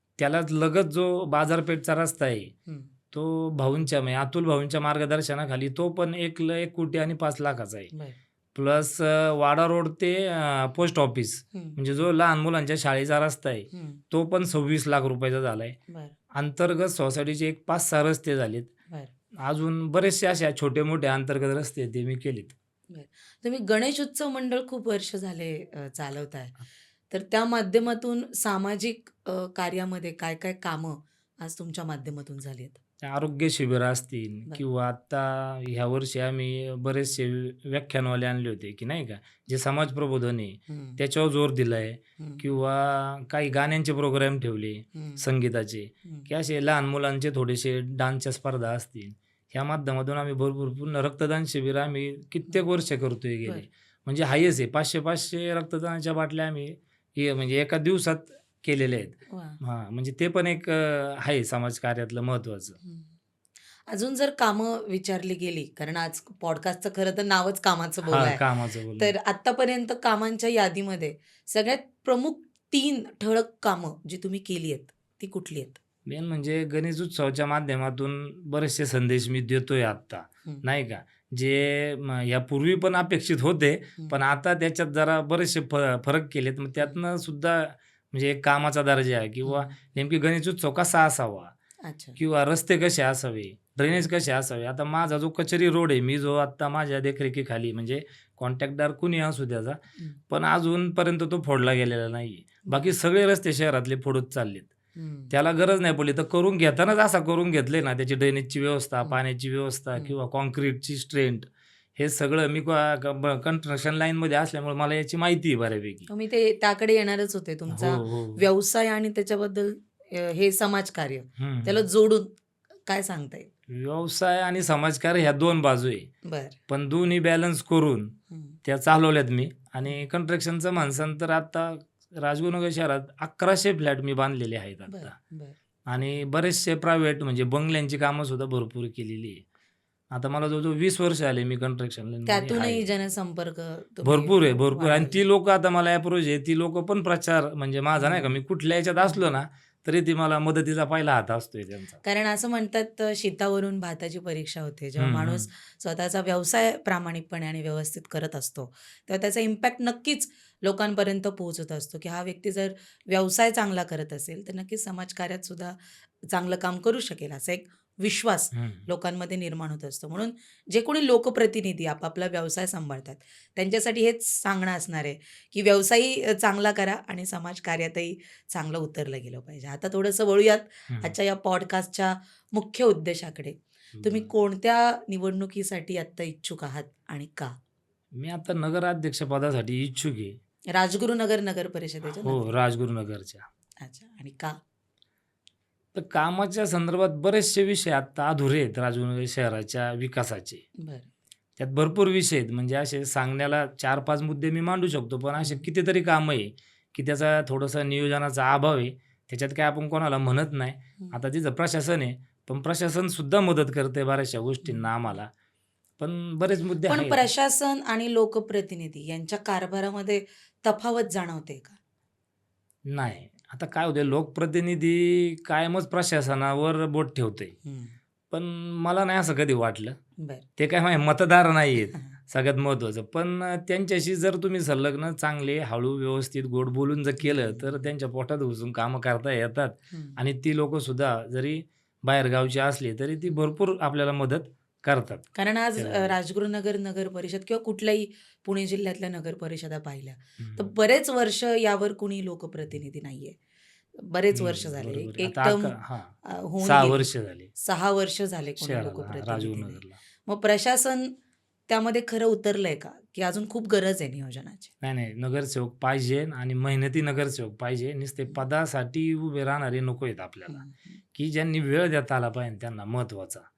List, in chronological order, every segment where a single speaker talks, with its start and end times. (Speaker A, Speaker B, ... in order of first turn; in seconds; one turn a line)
Speaker A: 0.2-2.5
Speaker A: 3.1-7.9
Speaker A: 8.6-15.8
Speaker B: 13.7-14.0
Speaker B: 15.9-16.2
Speaker A: 16.3-18.7
Speaker A: 19.4-22.6
Speaker B: 22.9-26.6
Speaker B: 27.1-32.8
Speaker A: 33.0-62.8
Speaker B: 40.7-41.0
Speaker B: 42.2-42.4
Speaker B: 45.0-45.2
Speaker B: 59.3-59.6
Speaker B: 63.9-68.4
Speaker A: 68.1-69.1
Speaker B: 69.0-75.8
Speaker A: 76.1-91.5
Speaker B: 89.4-89.8
Speaker B: 91.8-92.2
Speaker A: 92.2-104.7
Speaker B: 102.7-102.9
Speaker B: 105.0-105.3
Speaker A: 105.3-116.1
Speaker B: 116.1-122.3
Speaker A: 117.7-118.5
Speaker A: 121.4-121.9
Speaker B: 122.9-123.5
Speaker A: 123.7-126.1
Speaker B: 126.2-126.6
Speaker A: 126.7-135.1
Speaker B: 128.3-128.6
Speaker B: 134.9-135.6
Speaker A: 135.9-139.4
Speaker A: 140.1-142.9
Speaker B: 142.3-145.2
Speaker A: 144.0-152.0
Speaker B: 148.0-148.3
Speaker B: 152.0-187.6
Speaker A: 155.0-155.5
Speaker A: 168.5-168.8
Speaker A: 180.9-181.1
Speaker A: 184.0-184.3
Speaker A: 188.1-190.4
Speaker B: 190.7-192.5
Speaker A: 192.2-193.4
Speaker B: 193.8-194.6
Speaker A: 195.9-200.7
Speaker B: 200.8-201.1
Speaker A: 201.6-215.3
Speaker B: 205.4-205.7
Speaker A: 216.0-217.3
Speaker B: 216.9-221.8
Speaker A: 222.9-227.6
Speaker B: 227.7-228.0
Speaker A: 228.3-230.0
Speaker B: 230.2-230.4
Speaker A: 230.6-246.1
Speaker B: 237.2-237.8
Speaker B: 239.9-240.2
Speaker B: 245.3-253.4
Speaker A: 250.4-250.7
Speaker B: 254.0-261.1
Speaker A: 254.3-257.5
Speaker A: 258.6-260.0
Speaker B: 261.7-264.7
Speaker A: 264.8-273.5
Speaker B: 270.5-271.0